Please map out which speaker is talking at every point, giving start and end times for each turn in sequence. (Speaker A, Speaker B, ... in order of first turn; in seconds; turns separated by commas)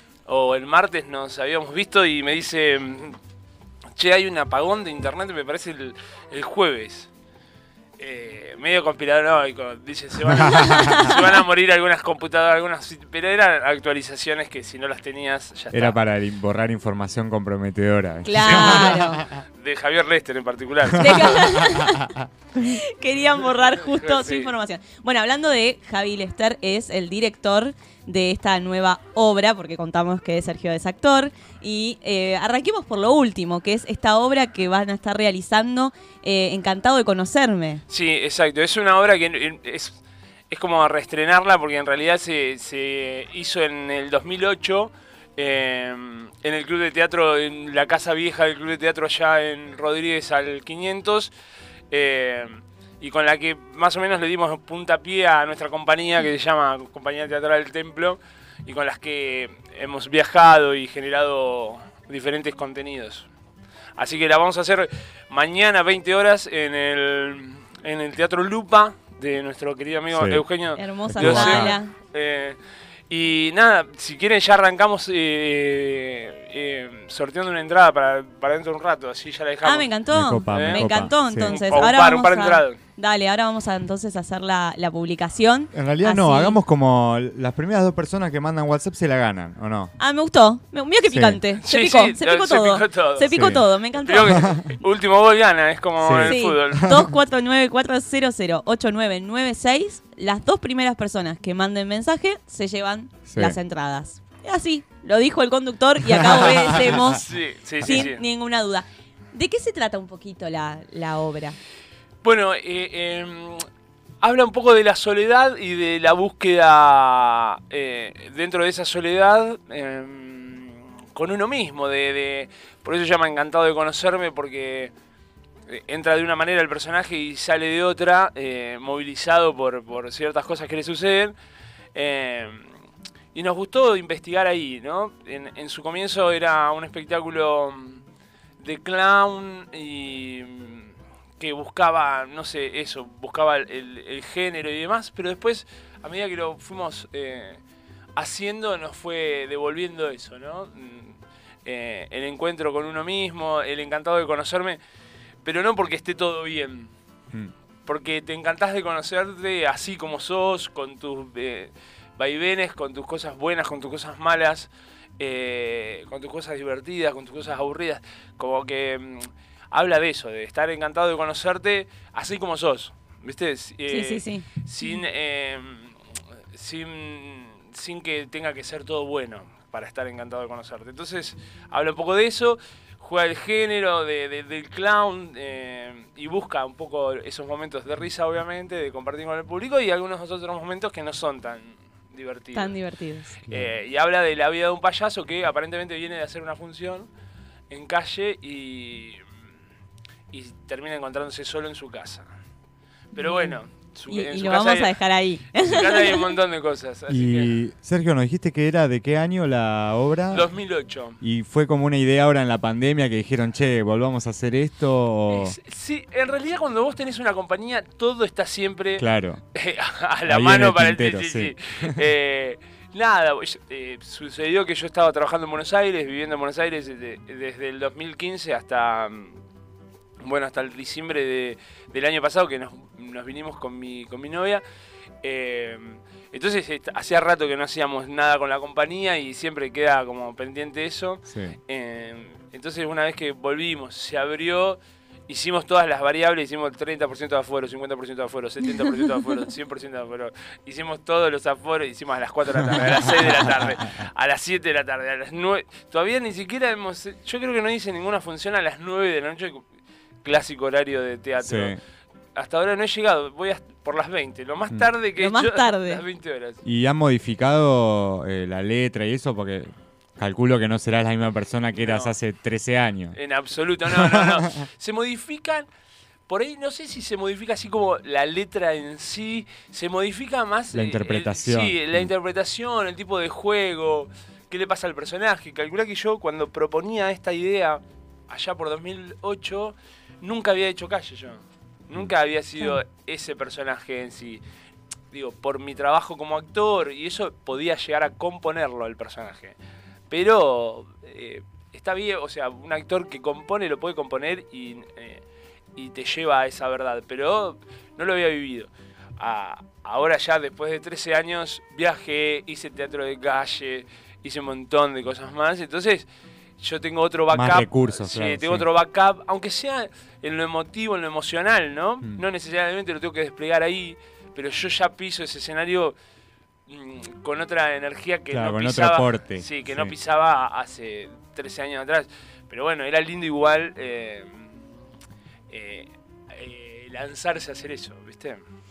Speaker A: 0.3-3.2, Speaker A: 4.0-7.1, Speaker A: 8.0-16.0, Speaker B: 10.6-11.1, Speaker C: 15.7-19.4, Speaker B: 18.2-19.2, Speaker A: 18.3-21.7, Speaker B: 20.9-37.8, Speaker C: 21.0-21.5, Speaker A: 23.7-24.5, Speaker A: 37.9-40.0, Speaker A: 40.5-51.3, Speaker A: 51.9-63.3, Speaker A: 64.0-72.6, Speaker C: 70.1-70.4, Speaker B: 70.8-71.9, Speaker C: 71.1-71.7, Speaker A: 73.1-79.9, Speaker B: 79.6-86.6, Speaker C: 80.1-81.5, Speaker A: 80.5-82.8, Speaker C: 85.7-89.9, Speaker B: 90.0-94.5, Speaker C: 91.1-91.4, Speaker A: 91.6-97.0, Speaker C: 93.3-93.6, Speaker C: 94.3-94.6, Speaker C: 96.0-97.0, Speaker B: 96.2-107.2, Speaker C: 103.3-103.6, Speaker C: 106.2-107.0, Speaker A: 107.1-108.2, Speaker C: 107.8-108.1, Speaker B: 107.8-111.5, Speaker A: 112.2-113.6, Speaker A: 114.2-124.9, Speaker A: 125.7-131.3, Speaker A: 131.9-132.7, Speaker A: 133.3-138.0, Speaker A: 138.6-147.6, Speaker A: 148.2-154.8, Speaker A: 155.4-156.9, Speaker A: 157.9-176.0, Speaker B: 173.9-175.0, Speaker A: 176.5-192.8, Speaker B: 192.5-193.3, Speaker A: 193.5-197.1, Speaker A: 197.7-199.2, Speaker A: 200.3-202.3, Speaker A: 203.1-205.0, Speaker B: 203.1-206.3, Speaker A: 205.5-207.6, Speaker C: 207.1-210.5, Speaker A: 210.3-211.2, Speaker C: 211.2-215.5, Speaker A: 215.3-219.0, Speaker C: 219.0-219.4, Speaker A: 219.5-229.4, Speaker C: 220.2-222.0, Speaker A: 230.2-234.6, Speaker A: 235.2-259.6, Speaker C: 241.3-241.6, Speaker A: 260.2-261.8, Speaker C: 261.4-261.8, Speaker A: 262.4-266.6, Speaker B: 265.2-266.0, Speaker C: 266.6-273.2, Speaker A: 271.8-272.1, Speaker A: 273.1-275.7, Speaker A: 276.3-294.4, Speaker C: 280.7-282.1, Speaker A: 295.1-299.6, Speaker A: 300.1-305.2, Speaker A: 305.8-316.1, Speaker A: 316.6-325.9, Speaker C: 317.3-318.7, Speaker A: 326.7-334.6, Speaker C: 328.3-329.9, Speaker A: 335.5-338.4